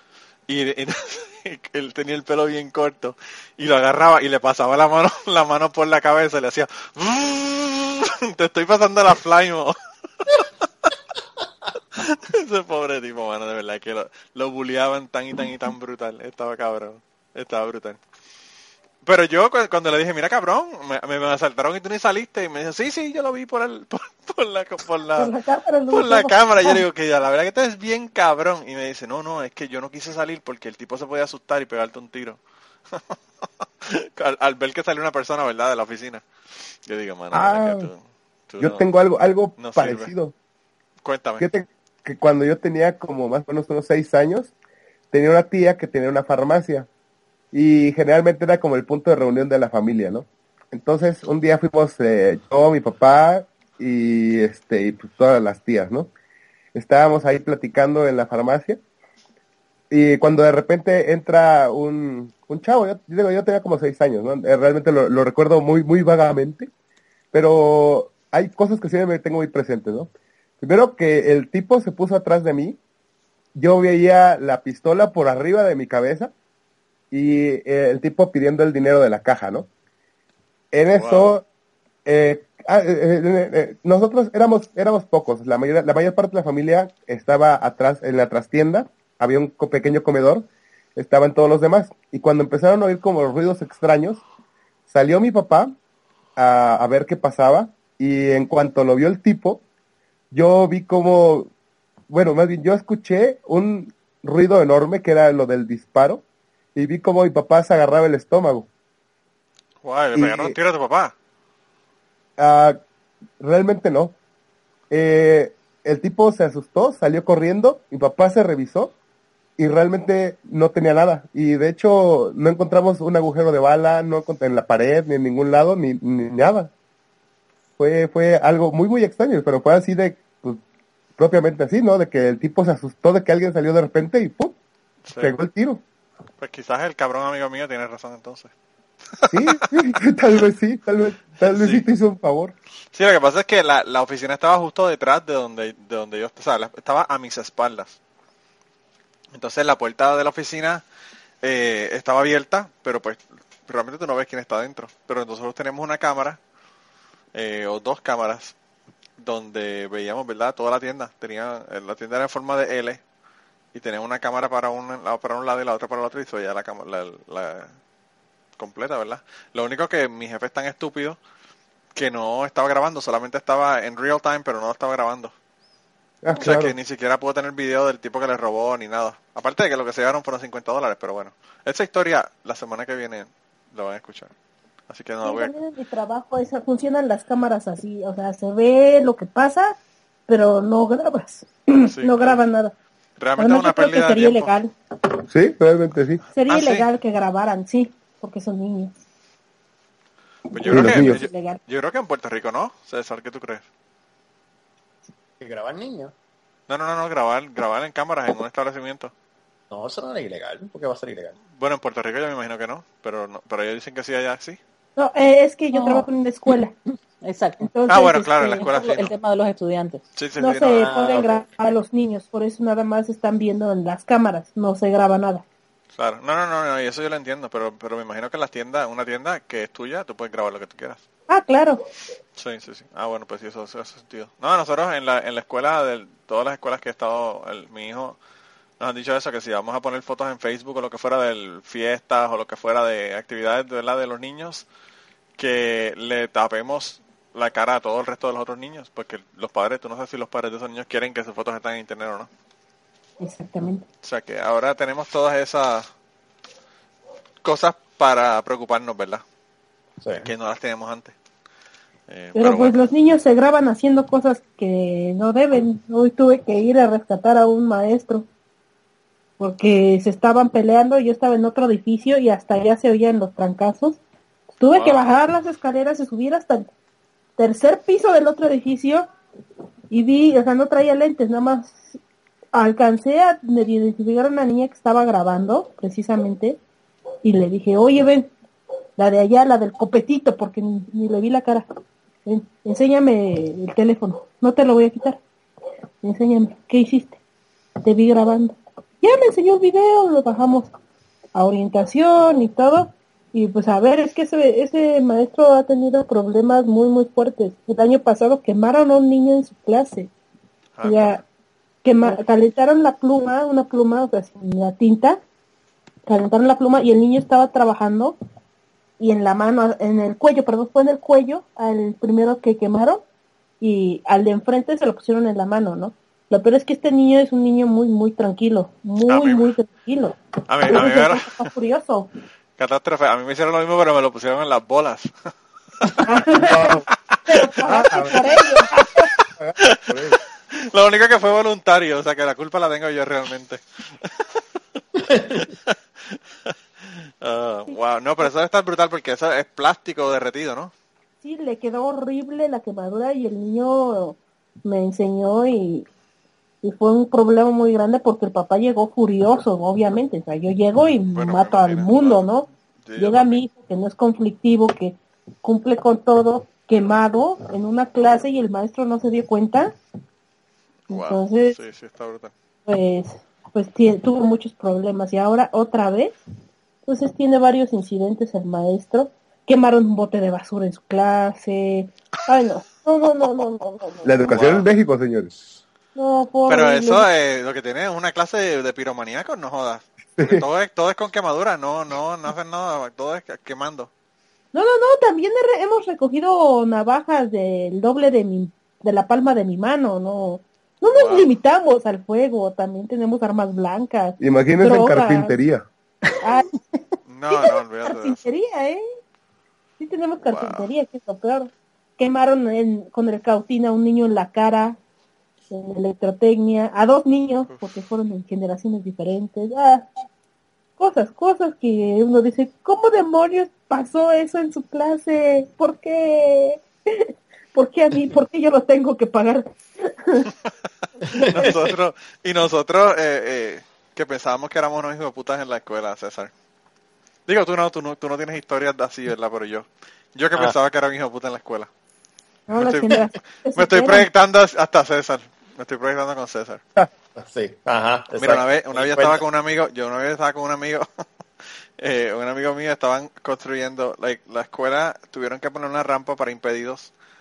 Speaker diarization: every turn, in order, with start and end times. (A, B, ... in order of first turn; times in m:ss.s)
0:00.5-0:10.4 A
0:12.0-0:18.0 A
0:19.0-0:25.3 A
0:25.2-0:26.8 B
0:25.9-0:32.4 A
0:33.8-0:36.2 A
0:36.9-0:38.8 A
0:37.3-0:37.9 C
0:38.6-0:40.4 C
0:39.6-0:40.1 A
0:41.0-0:41.5 A
0:41.4-0:44.5 C
0:45.1-0:46.9 C
0:47.5-0:56.1 C
0:56.8-0:58.8 C
0:59.9-1:06.7 C
1:07.3-1:12.8 C
1:13.6-1:16.3 C
1:17.1-1:19.7 C
1:20.7-1:21.4 C
1:21.0-1:21.3 A
1:22.0-1:34.2 C
1:34.9-1:35.7 C
1:36.4-1:39.6 C
1:40.3-1:41.5 C
1:42.1-1:46.2 C
1:46.8-1:48.7 C
1:49.8-1:51.1 A
1:50.2-1:50.6 C
1:52.4-1:52.8 C
1:53.4-1:54.2 C
1:54.9-1:58.9 C
1:59.6-2:06.7 C
2:07.8-2:10.6 C
2:11.2-2:14.6 C
2:15.1-2:15.4 A
2:15.2-2:15.8 C
2:16.4-2:18.5 A
2:19.2-2:19.6 A
2:19.3-2:22.6 C
2:21.5-2:21.8 A
2:22.9-2:28.0 A
2:29.4-2:30.8 A
2:31.4-2:36.4 A
2:37.3-2:38.5 A
2:39.2-2:43.0 A
2:43.7-2:47.7 A
2:48.6-2:51.2 A
2:52.0-2:55.3 A
2:56.2-2:56.8 C
2:56.4-3:04.3 A
3:04.9-3:05.5 A
3:05.2-3:12.7 B
3:11.9-3:12.4 A
3:13.2-3:14.5 A
3:13.4-3:14.7 B
3:15.3-3:16.2 C
3:16.4-3:18.9 B
3:16.5-3:16.9 A
3:20.5-3:23.6 A
3:20.6-3:21.6 B
3:20.7-3:21.2 C
3:25.4-3:26.1 D
3:26.7-3:29.1 A
3:29.7-3:31.4 D
3:31.6-3:34.6 A
3:35.0-3:36.8 B
3:35.7-3:36.1 E
3:37.2-3:37.7 E
3:37.6-3:38.7 B
3:37.9-3:39.1 A
3:38.5-3:40.0 E
3:40.2-3:40.9 A
3:40.4-3:45.4 B
3:40.7-3:41.4 D
3:46.0-3:51.0 A
3:51.3-3:51.8 B
3:52.4-3:58.2 A
3:58.8-4:04.7 A
4:05.4-4:12.3 A
4:13.2-4:13.8 B
4:14.0-4:15.9 A
4:17.4-4:19.2 A
4:20.0-4:20.3 D
4:20.2-4:21.2 A
4:22.1-4:22.7 A
4:22.4-4:28.3 B
4:29.4-4:34.0 B
4:34.6-4:36.7 B
4:34.7-4:35.0 A
4:37.4-4:39.1 B
4:39.9-4:42.0 B
4:42.5-4:46.6 B
4:47.2-4:48.3 B
4:49.0-4:51.6 B
4:52.3-4:55.2 B
4:56.0-4:57.2 B
4:57.8-5:00.7 B
5:01.4-5:10.1 B
5:10.8-5:11.2 A
5:10.8-5:11.2 B
5:11.8-5:15.2 B
5:16.1-5:18.2 B
5:19.0-5:23.0 B
5:23.6-5:32.1 B
5:29.1-5:29.5 A
5:30.5-5:31.5 A
5:32.6-5:35.1 A
5:36.0-5:39.1 B
5:36.4-5:36.8 C
5:37.7-5:38.4 C
5:39.4-5:40.2 C
5:39.6-5:44.4 A
5:45.3-5:46.2 A
5:47.2-5:50.7 A
5:51.2-5:55.9 B
5:56.6-6:09.8 B
6:01.1-6:03.4 A
6:10.9-6:12.3 A
6:10.9-6:11.6 B
6:12.7-6:16.2 B
6:16.9-6:24.2 B
6:24.0-6:25.3 C
6:24.3-6:24.7 A
6:26.0-6:27.1 B
6:26.5-6:33.9 A
6:30.2-6:30.5 C
6:34.5-6:45.4 B
6:40.8-6:41.3 A
6:44.2-6:45.7 C
6:46.2-6:46.8 B
6:47.1-6:48.3 A
6:47.3-6:48.8 B
6:49.8-6:54.8 B
6:50.2-6:50.7 A
6:55.5-7:00.0 B
7:00.8-7:10.3 B
7:11.1-7:11.7 D
7:11.1-7:11.5 B
7:11.3-7:16.3 A
7:17.3-7:21.7 A
7:22.5-7:24.1 B
7:22.6-7:23.0 A
7:23.6-7:26.6 A
7:27.2-7:29.2 D
7:28.2-7:30.8 A
7:31.8-7:36.9 A